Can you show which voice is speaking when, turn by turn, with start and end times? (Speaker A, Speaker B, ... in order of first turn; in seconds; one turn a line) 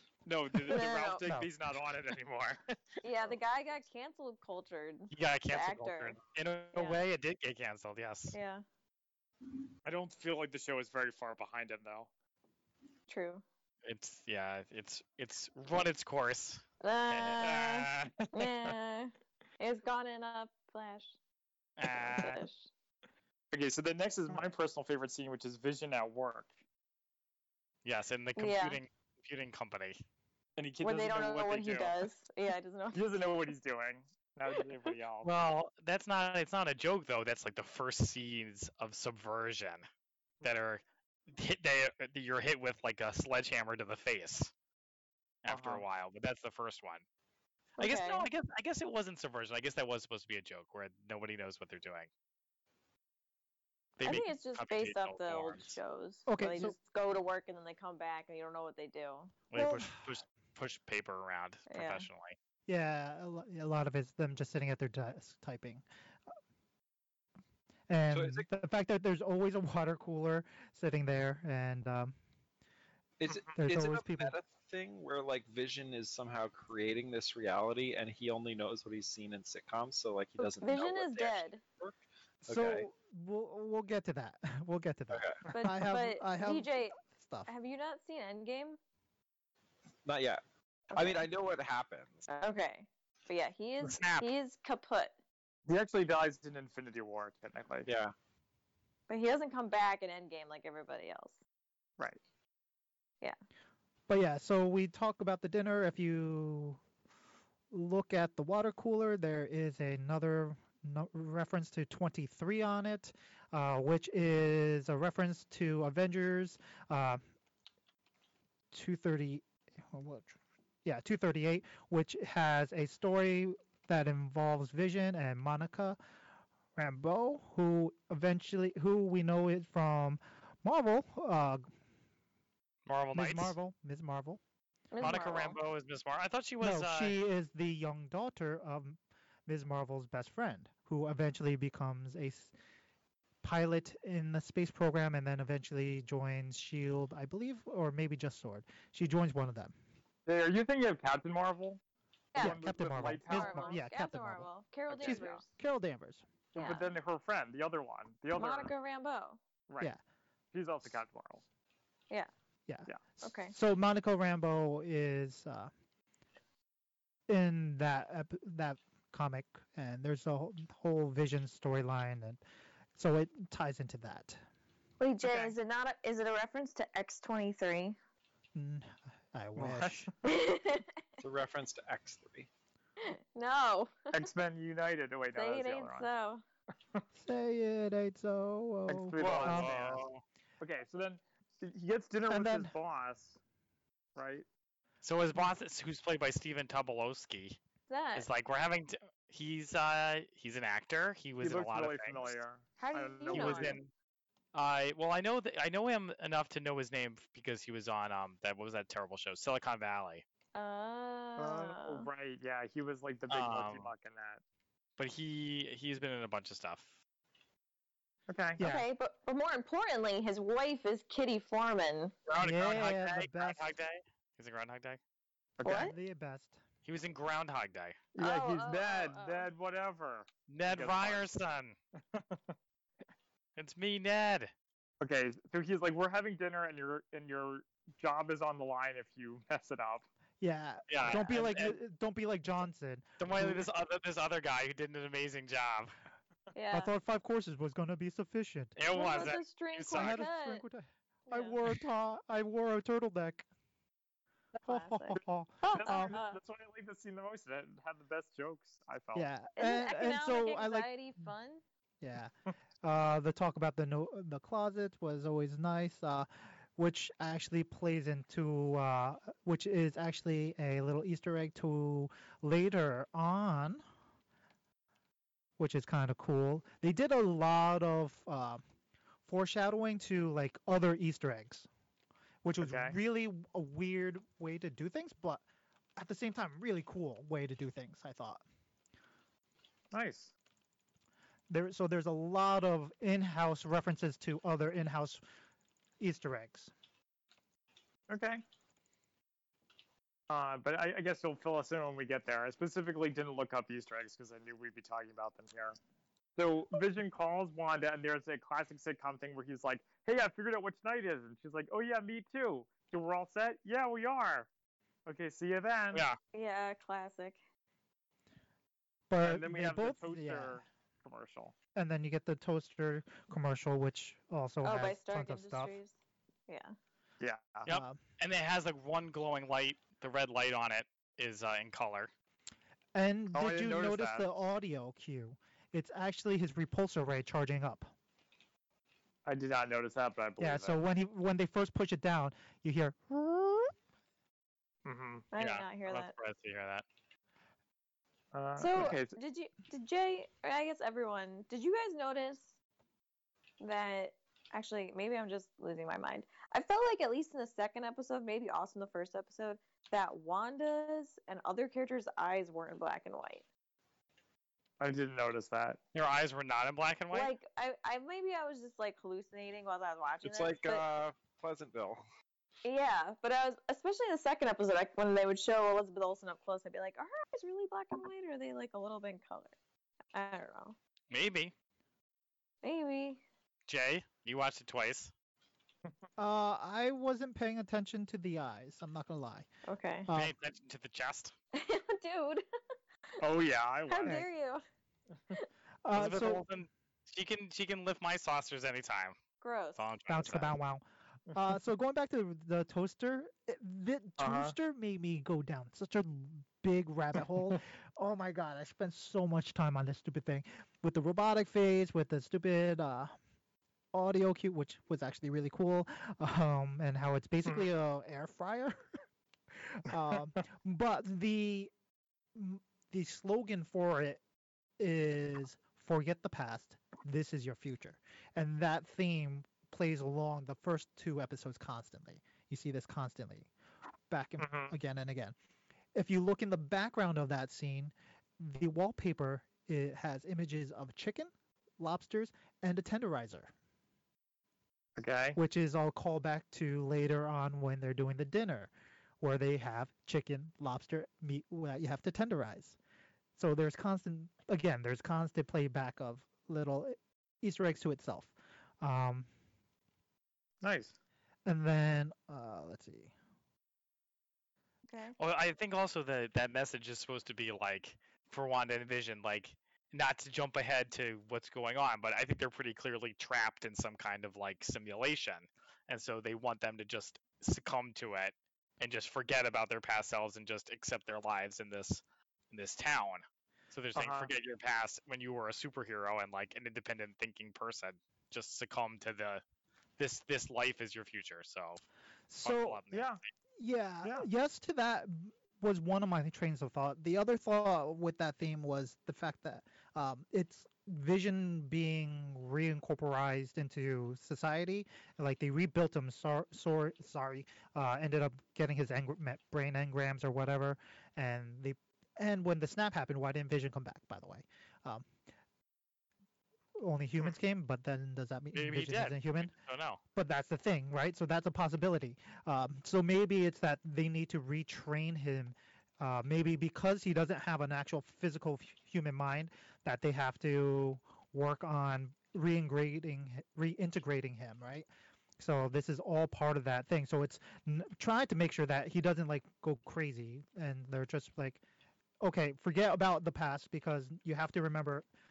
Speaker A: 0.3-3.0
Speaker B: 0.6-1.3
Speaker C: 1.2-1.5
Speaker B: 3.0-6.2
Speaker D: 5.1-8.4
Speaker B: 6.7-7.0
Speaker B: 8.3-8.6
Speaker A: 9.8-12.1
Speaker B: 13.1-13.4
Speaker D: 13.8-18.1
Speaker B: 16.8-21.1
Speaker A: 18.2-18.7
Speaker D: 21.8-22.5
Speaker B: 21.8-22.7
Speaker A: 23.5-26.5
Speaker D: 27.9-30.0
Speaker B: 28.4-28.8
Speaker A: 30.6-32.1
Speaker B: 30.8-33.2
Speaker A: 32.9-35.3
Speaker D: 35.2-39.9
Speaker D: 40.4-44.5
Speaker D: 45.4-47.0
Speaker A: 45.5-45.9
Speaker B: 47.8-48.3
Speaker D: 47.8-52.1
Speaker D: 54.0-55.8
Speaker B: 54.0-59.3
Speaker C: 56.3-56.8
Speaker D: 59.5-62.4
Speaker C: 59.5-59.9
Speaker B: 61.7-62.1
Speaker C: 62.7-65.8
Speaker C: 67.9-72.2
Speaker E: 68.1-68.5
Speaker E: 73.2-82.9
Speaker A: 73.3-73.6
Speaker C: 73.5-74.3
Speaker B: 80.4-81.6
Speaker C: 82.5-87.5
Speaker E: 85.1-85.4
Speaker B: 85.5-88.8
Speaker E: 90.0-90.4
Speaker B: 90.9-91.3
Speaker E: 90.9-92.3
Speaker B: 92.3-95.1
Speaker D: 93.8-94.3
Speaker A: 95.7-97.9
Speaker E: 97.9-98.1
Speaker B: 99.1-101.3
Speaker C: 104.1-106.8
Speaker C: 107.7-117.2
Speaker C: 118.7-126.0
Speaker C: 126.8-131.7
Speaker D: 132.9-133.6
Speaker C: 133.1-134.4
Speaker B: 134.9-135.6
Speaker D: 135.0-137.2
Speaker C: 136.6-142.5
Speaker C: 143.4-149.7
Speaker A: 150.3-151.8
Speaker B: 152.3-152.6
Speaker A: 152.3-153.8
Speaker C: 152.4-156.2
Speaker B: 153.3-155.4
Speaker A: 155.0-155.4
Speaker B: 156.6-157.0
Speaker A: 156.6-158.7
Speaker B: 158.3-159.4
Speaker A: 160.5-161.4
Speaker C: 162.7-165.7
Speaker B: 163.2-163.5
Speaker C: 167.3-172.4
Speaker C: 173.0-174.4
Speaker B: 175.0-178.0
Speaker A: 175.2-175.5
Speaker C: 178.6-180.1
Speaker A: 179.6-180.1
Speaker B: 180.2-181.0
Speaker E: 181.2-182.5
Speaker B: 183.0-184.3
Speaker A: 184.1-186.1
Speaker B: 185.3-186.4
Speaker C: 187.1-190.0
Speaker A: 188.9-190.0
Speaker E: 189.2-189.7
Speaker D: 189.2-190.2
Speaker A: 190.6-193.4
Speaker C: 192.3-192.7
Speaker A: 194.2-194.5
Speaker D: 195.0-197.6
Speaker B: 197.9-198.3
Speaker D: 198.2-202.4
Speaker A: 201.4-203.8
Speaker B: 202.8-203.8
Speaker D: 203.3-203.9
Speaker D: 204.5-210.2
Speaker B: 210.6-212.1
Speaker A: 211.4-214.4
Speaker D: 213.3-213.9
Speaker D: 215.0-216.9
Speaker A: 218.3-218.6
Speaker C: 218.6-218.9
Speaker B: 218.6-222.1
Speaker D: 222.3-225.0
Speaker C: 222.4-223.7
Speaker A: 225.6-225.9
Speaker B: 225.6-225.9
Speaker C: 225.7-226.6
Speaker D: 226.9-228.0
Speaker A: 228.2-231.3
Speaker B: 228.2-229.5
Speaker D: 230.5-231.8
Speaker A: 232.1-232.5
Speaker D: 233.6-234.5
Speaker A: 235.0-240.1
Speaker C: 240.4-243.7
Speaker D: 240.9-241.8
Speaker D: 243.2-245.9
Speaker B: 246.5-246.9
Speaker C: 246.7-248.8
Speaker D: 248.8-250.2
Speaker B: 248.9-250.7
Speaker C: 249.9-253.4
Speaker B: 251.3-251.6
Speaker B: 254.7-255.2
Speaker C: 254.7-256.2
Speaker A: 255.2-259.3
Speaker B: 255.8-256.4
Speaker C: 259.1-260.9
Speaker B: 259.6-261.6
Speaker C: 262.0-273.8
Speaker C: 275.6-278.6
Speaker C: 279.3-281.7
Speaker C: 282.4-285.4
Speaker A: 282.6-282.9
Speaker C: 286.0-288.4
Speaker A: 289.9-290.3
Speaker C: 291.5-295.2
Speaker C: 296.0-296.7
Speaker A: 298.1-298.4
Speaker A: 300.3-305.8
Speaker A: 306.4-314.5
Speaker A: 315.1-316.1
Speaker D: 315.9-316.2
Speaker B: 316.3-317.4
Speaker C: 319.1-320.6
Speaker A: 319.2-321.5
Speaker C: 321.8-325.8
Speaker B: 324.6-325.9
Speaker B: 326.5-326.7
Speaker A: 327.2-327.7
Speaker C: 327.7-328.0
Speaker D: 327.7-332.1
Speaker C: 332.9-337.9
Speaker A: 333.3-334.3
Speaker A: 339.2-340.8
Speaker C: 340.4-343.7
Speaker A: 344.9-345.3
Speaker B: 345.3-346.1
Speaker D: 345.4-346.8
Speaker A: 348.3-349.2
Speaker B: 348.6-352.5
Speaker B: 353.6-363.4
Speaker A: 364.8-365.8
Speaker D: 365.9-367.3
Speaker B: 367.1-370.9
Speaker E: 370.2-372.0
Speaker B: 372.6-379.6
Speaker B: 380.1-380.8
Speaker D: 381.1-381.5
Speaker B: 382.6-383.2
Speaker D: 383.7-385.1
Speaker C: 386.2-389.5
Speaker B: 389.7-390.1
Speaker C: 390.1-390.3
Speaker D: 390.1-391.3
Speaker B: 391.5-392.5
Speaker A: 393.2-394.3
Speaker B: 393.9-394.6
Speaker C: 395.9-396.4
Speaker D: 395.9-399.2
Speaker B: 399.4-399.8
Speaker D: 399.8-400.6
Speaker C: 400.1-413.1
Speaker A: 404.2-404.5
Speaker C: 413.9-419.0
Speaker C: 419.5-421.7
Speaker C: 422.3-424.2
Speaker C: 424.8-433.5
Speaker C: 434.1-435.3
Speaker A: 434.4-434.7
Speaker C: 436.0-443.5
Speaker A: 445.0-445.4
Speaker C: 445.4-452.8
Speaker C: 453.4-459.3
Speaker A: 460.6-460.9
Speaker C: 461.5-463.1
Speaker B: 464.9-465.1
Speaker D: 465.2-489.4
Speaker A: 483.9-484.3
Speaker D: 490.0-491.8
Speaker C: 492.3-492.8
Speaker D: 492.4-493.2
Speaker A: 492.9-493.2
Speaker C: 493.6-515.0
Speaker C: 516.8-519.5
Speaker D: 518.5-520.0
Speaker C: 520.1-534.9
Speaker C: 535.4-541.6
Speaker C: 542.2-545.0